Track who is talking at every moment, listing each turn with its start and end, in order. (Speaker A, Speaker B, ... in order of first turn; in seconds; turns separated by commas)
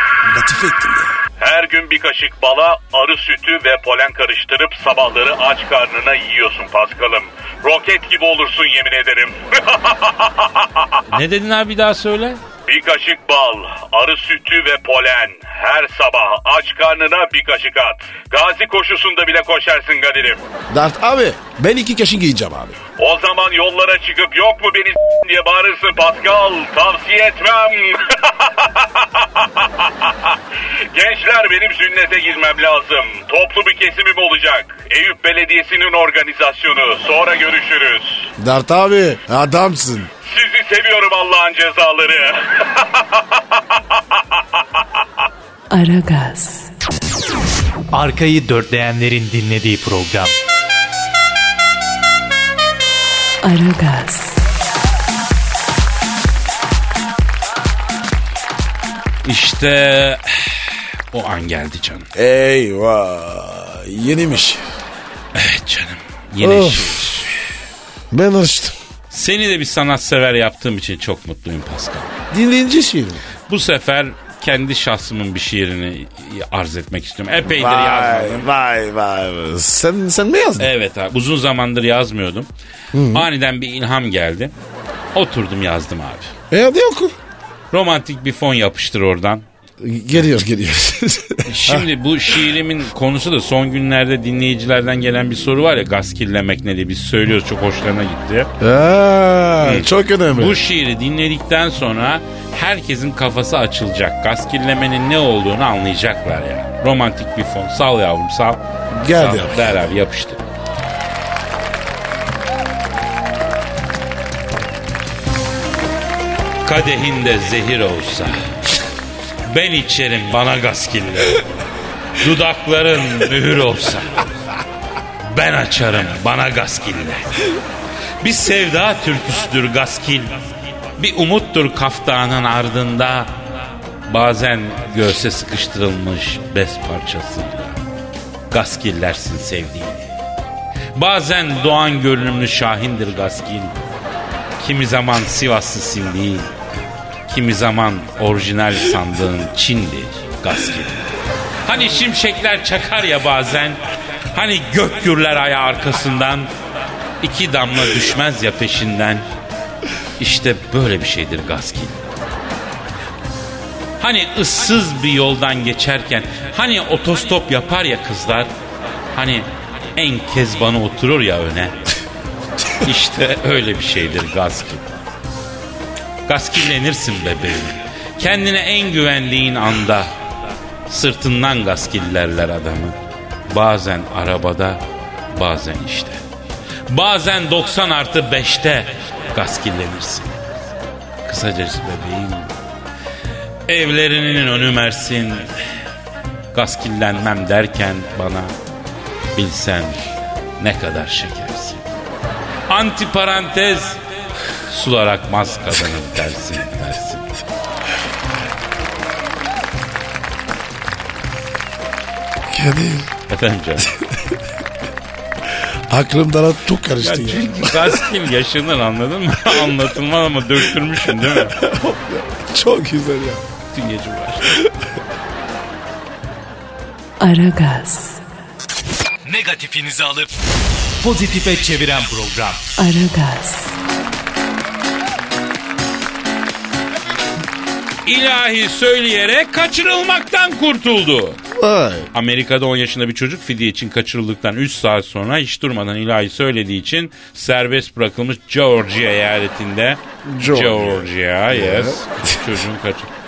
Speaker A: 0.2-1.2, Speaker B: 1.4-11.0, Speaker C: 11.1-12.4, Speaker B: 12.7-20.4, Speaker A: 20.7-22.8, Speaker B: 23.0-30.3, Speaker B: 30.9-38.3, Speaker A: 38.4-40.1, Speaker B: 40.2-44.4, Speaker D: 45.7-46.7, Speaker E: 47.9-50.3, Speaker D: 53.4-54.4, Speaker C: 59.2-62.1, Speaker A: 62.1-64.6, Speaker C: 65.3-67.3, Speaker A: 66.4-67.3, Speaker A: 68.1-68.8, Speaker C: 69.1-72.1, Speaker A: 72.3-73.2, Speaker C: 73.5-78.5, Speaker A: 77.5-80.7, Speaker C: 80.6-82.5, Speaker A: 82.9-83.3, Speaker C: 83.1-84.5, Speaker C: 85.1-86.3, Speaker A: 86.5-87.2, Speaker C: 87.7-89.4, Speaker A: 89.8-92.4, Speaker C: 91.5-98.5, Speaker A: 98.6-100.6, Speaker C: 99.6-110.4, Speaker A: 108.9-109.8, Speaker C: 116.6-118.4, Speaker C: 119.5-121.4, Speaker C: 122.2-124.3, Speaker C: 125.2-127.3, Speaker C: 128.2-130.3, Speaker C: 131.0-133.3, Speaker C: 134.1-137.8, Speaker C: 138.5-140.1, Speaker C: 140.9-143.8, Speaker C: 144.6-146.5, Speaker C: 147.3-151.0, Speaker C: 151.6-153.8, Speaker C: 154.3-156.5, Speaker C: 157.2-159.2, Speaker C: 160.2-162.0, Speaker C: 164.0-168.5, Speaker C: 169.1-171.8, Speaker C: 172.8-174.9, Speaker C: 176.3-180.1, Speaker C: 180.9-182.9, Speaker C: 183.5-184.8, Speaker C: 185.3-186.2, Speaker C: 186.9-190.3, Speaker C: 191.2-192.5, Speaker C: 193.7-195.5, Speaker C: 196.5-198.5, Speaker C: 199.3-200.0, Speaker C: 200.6-201.8, Speaker C: 202.7-204.0, Speaker C: 204.7-207.3, Speaker A: 212.5-213.1, Speaker C: 213.3-213.9, Speaker A: 213.8-214.4, Speaker A: 215.5-218.0, Speaker C: 217.0-221.5, Speaker A: 221.1-223.4, Speaker C: 223.7-224.5, Speaker A: 224.5-224.8, Speaker D: 227.2-228.2, Speaker E: 229.2-230.3, Speaker E: 231.0-232.6, Speaker D: 232.8-233.8, Speaker C: 238.1-241.4, Speaker A: 241.5-242.1, Speaker C: 242.1-253.1, Speaker A: 250.2-252.6